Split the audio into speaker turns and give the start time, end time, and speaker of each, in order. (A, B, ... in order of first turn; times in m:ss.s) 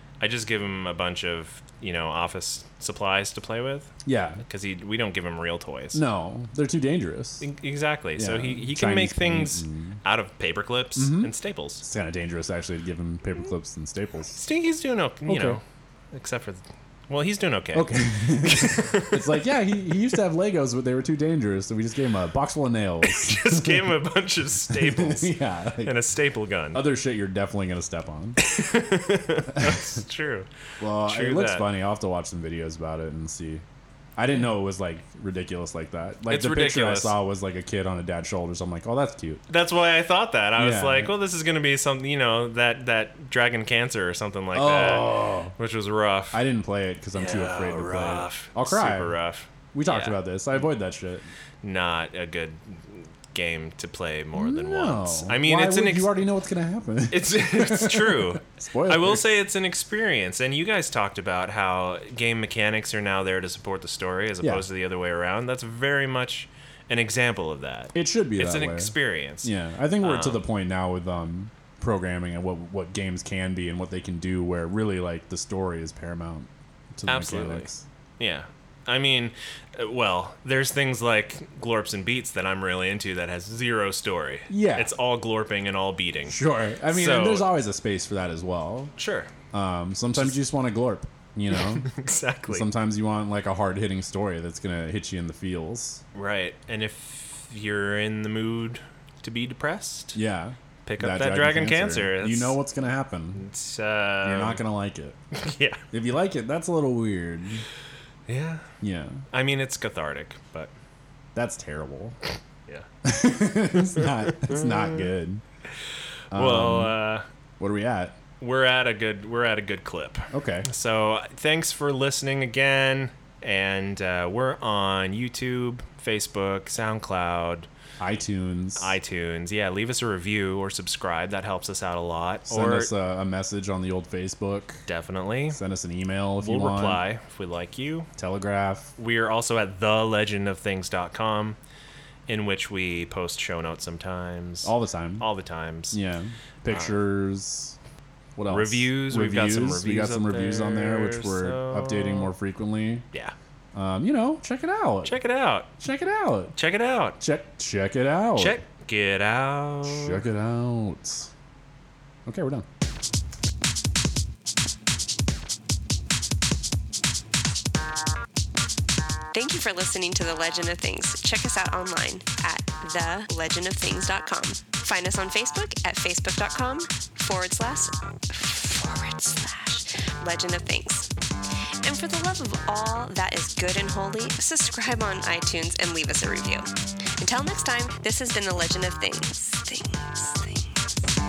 0:00.2-0:03.9 A
0:04.0-0:04.4 B
0:04.4-0:06.0 A
0:05.9-0:07.4 B
0:07.4-0:11.8 A
0:08.2-0:10.0 B
0:11.0-0:14.4 B
0:14.4-0:19.3 A
0:15.3-0:15.6 B
0:17.7-0:24.0 B
0:23.0-0:26.8 A
0:24.7-0:26.0 B
0:26.7-0:28.4 B
0:28.4-0:30.5 A
0:29.5-0:30.0 B
0:30.8-0:33.6 B
0:31.0-0:31.7 A
0:34.2-0:39.4 B
0:36.3-0:37.2 A
0:39.5-0:46.4 A
0:40.6-0:41.1 B
0:44.5-0:45.5 B
0:46.3-0:49.2 B
0:47.1-0:50.2 A
0:49.7-0:51.3 B
0:51.6-0:56.2 A
0:54.3-0:59.3 B
0:57.1-1:10.4 A
1:07.9-1:17.8 B
1:17.1-1:17.7 A
1:18.2-1:27.5 A
1:24.5-1:24.9 B
1:26.3-1:28.9 B
1:29.0-1:29.3 A
1:29.5-1:31.9 B
1:31.5-1:32.7 A
1:32.5-1:36.0 B
1:36.1-1:40.2 A
1:40.2-1:43.4 B
1:40.8-1:42.6 A
1:43.3-1:44.6 A
1:44.2-1:45.2 B
1:45.3-1:45.8 A
1:45.9-1:47.6 B
1:48.3-1:48.6 A
1:48.8-1:49.2 B
1:49.3-1:50.7 A
1:51.4-1:52.2 B
1:53.0-1:55.4 B
1:56.3-1:57.0 B
1:56.3-1:57.3 A
1:57.6-1:58.2 B
1:58.4-2:07.7 A
2:00.3-2:00.7 B
2:08.0-2:08.9 B
2:08.8-2:12.9 A
2:12.5-2:14.8 B
2:14.9-2:15.6 A
2:15.5-2:17.0 B
2:16.4-2:18.1 A
2:18.2-2:18.9 B
2:19.0-2:21.6 A
2:22.3-2:26.0 A
2:24.6-2:25.3 B
2:25.9-2:27.8 B
2:26.7-2:27.0 A
2:28.4-2:33.0 B
2:28.5-2:32.3 A
2:33.7-2:35.2 B
2:35.0-2:35.7 A
2:35.8-2:36.5 B
2:36.5-2:37.2 A
2:37.2-2:38.6 B
2:38.4-2:40.2 A
2:39.8-2:41.3 B
2:42.3-2:42.6 B
2:49.3-3:01.1 C
3:01.8-3:10.8 C